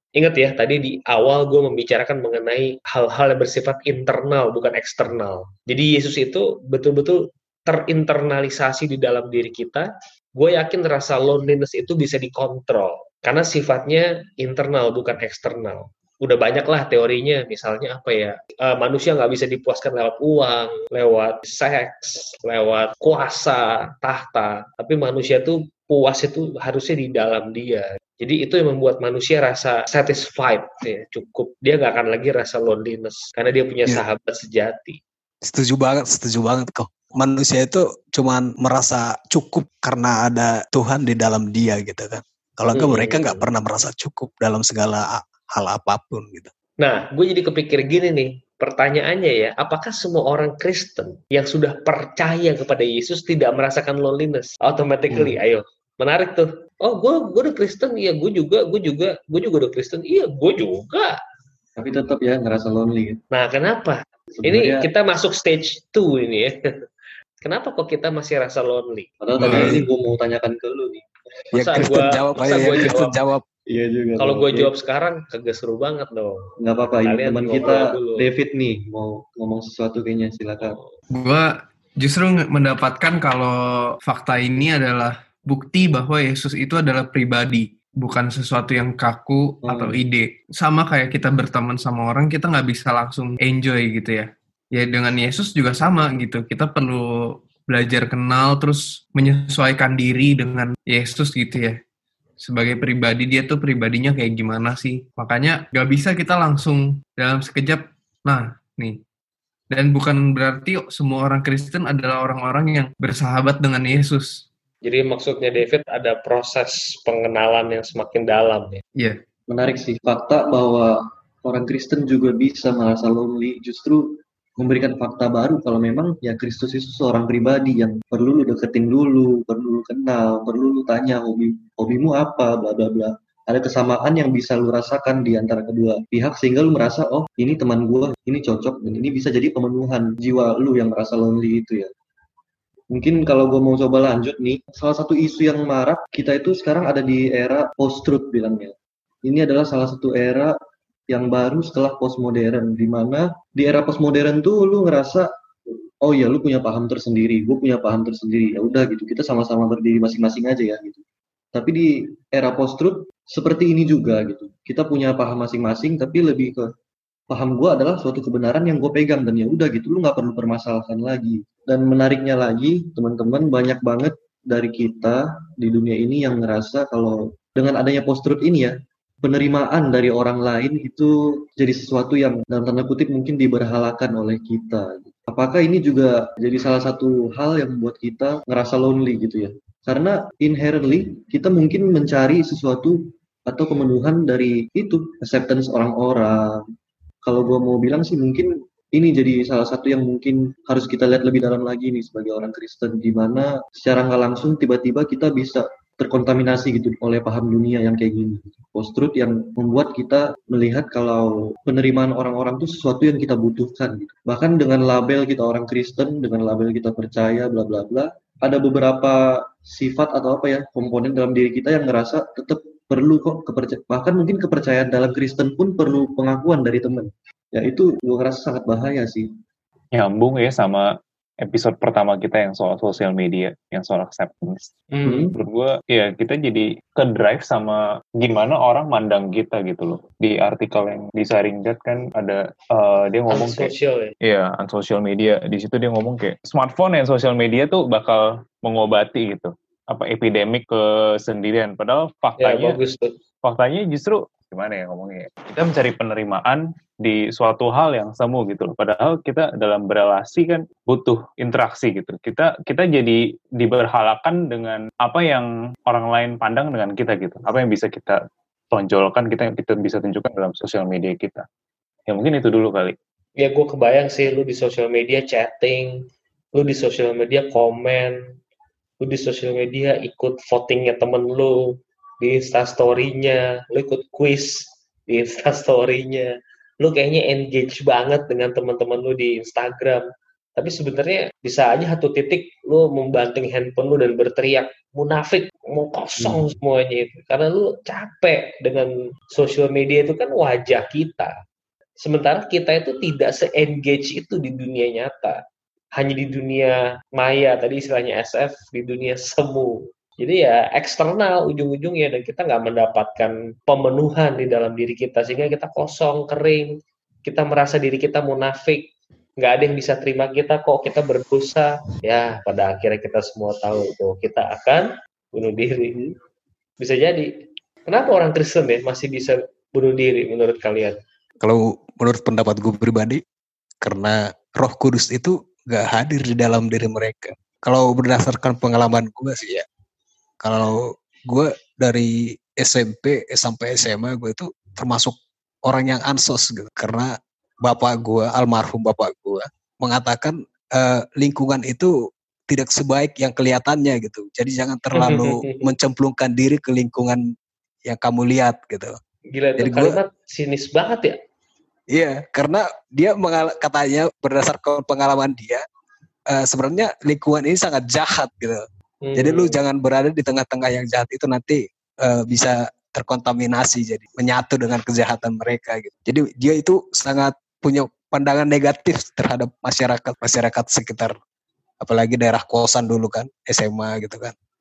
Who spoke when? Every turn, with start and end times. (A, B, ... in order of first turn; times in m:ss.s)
0:00.2-0:35.0 A
0:35.4-0:46.5 B
0:42.7-0:43.4 A
0:46.8-1:01.2 A
0:55.1-0:55.4 C
1:01.8-1:03.2 C
1:03.3-1:06.6 A
1:04.4-1:04.9 C
1:07.4-1:09.1 A
1:09.2-1:12.9 C
1:09.4-1:09.7 D
1:09.4-1:09.8 B
1:11.5-1:13.4 B
1:11.6-1:13.1 A
1:13.7-1:14.7 C
1:14.2-1:16.4 A
1:16.6-1:20.8 C
1:17.0-1:18.3 A
1:20.6-1:20.9 A
1:21.1-1:21.5 D
1:22.0-1:37.0 D
1:29.6-1:30.0 C
1:37.7-1:41.8 D
1:42.4-1:49.0 D
1:49.7-1:54.4 D
1:54.8-1:58.8 A
1:59.5-2:21.9 C
2:22.9-2:30.6 C
2:31.1-2:35.3 C
2:36.0-2:41.0 C
2:41.5-2:46.7 C
2:47.3-3:16.6 C
3:17.2-3:49.3 C
3:49.9-3:50.8 E
3:51.4-3:54.7 E
3:54.9-3:55.3 A
3:55.0-3:55.3 C
3:55.3-4:12.8 E
4:03.3-4:04.1 A
4:12.4-4:13.1 A
4:13.4-4:28.2 E
4:28.7-4:31.4 E
4:32.1-4:32.9 E
4:33.4-4:38.2 A
4:39.0-4:50.0 A
4:50.6-5:01.3 A
4:56.2-4:56.4 C
5:02.0-5:05.4 A
5:06.0-5:16.7 A
5:17.2-5:26.0 A
5:26.8-5:27.3 A
5:27.9-5:31.0 A
5:31.4-5:33.2 B
5:33.8-5:39.6 B
5:40.4-5:47.1 B
5:47.6-5:51.9 B
5:52.5-5:57.2 B
5:55.0-5:55.6 A
5:57.8-5:58.9 B
5:59.3-6:01.2 A
5:59.6-6:00.0 B
6:01.9-6:05.6 B
6:06.3-6:08.6 B
6:09.0-6:09.6 A
6:09.2-6:21.2 B
6:21.8-6:24.3 B